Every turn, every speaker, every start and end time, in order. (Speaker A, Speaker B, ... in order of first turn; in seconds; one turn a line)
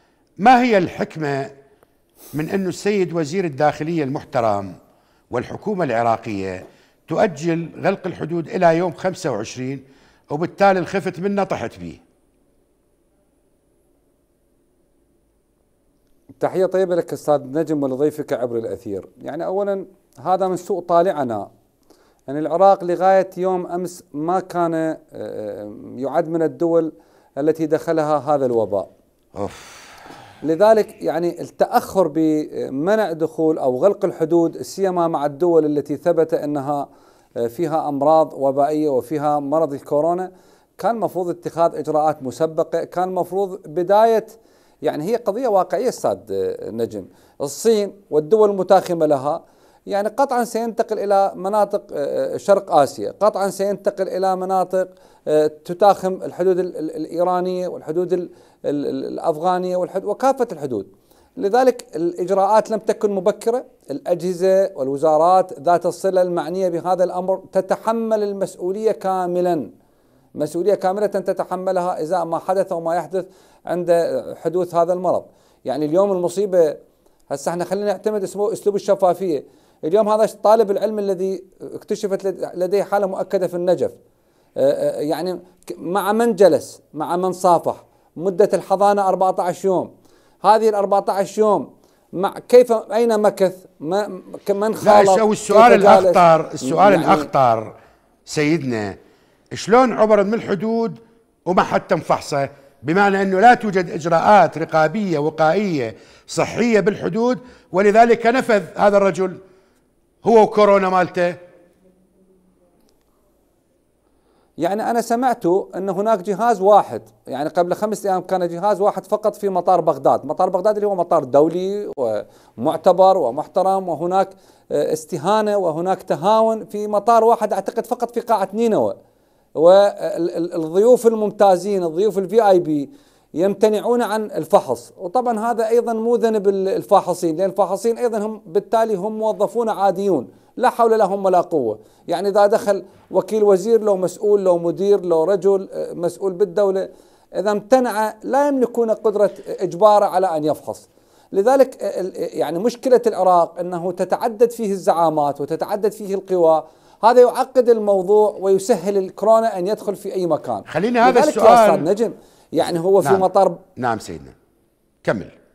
Speaker A: 0.4-1.5
Speaker A: 2.3-4.8
Speaker A: 5.3-12.0
Speaker B: 16.4-21.5
Speaker B: 22.3-28.9
Speaker A: 29.4-29.9
Speaker B: 30.4-69.7
Speaker B: 70.3-84.0
Speaker B: 84.5-89.9
Speaker B: 90.4-97.3
Speaker A: 94.8-97.7
Speaker A: 98.2-99.0
Speaker A: 99.5-109.4
Speaker A: 110.2-111.4
Speaker B: 114.6-128.9
Speaker B: 129.5-163.6
Speaker A: 160.7-161.9
Speaker A: 163.8-164.3
Speaker A: 165.0-165.3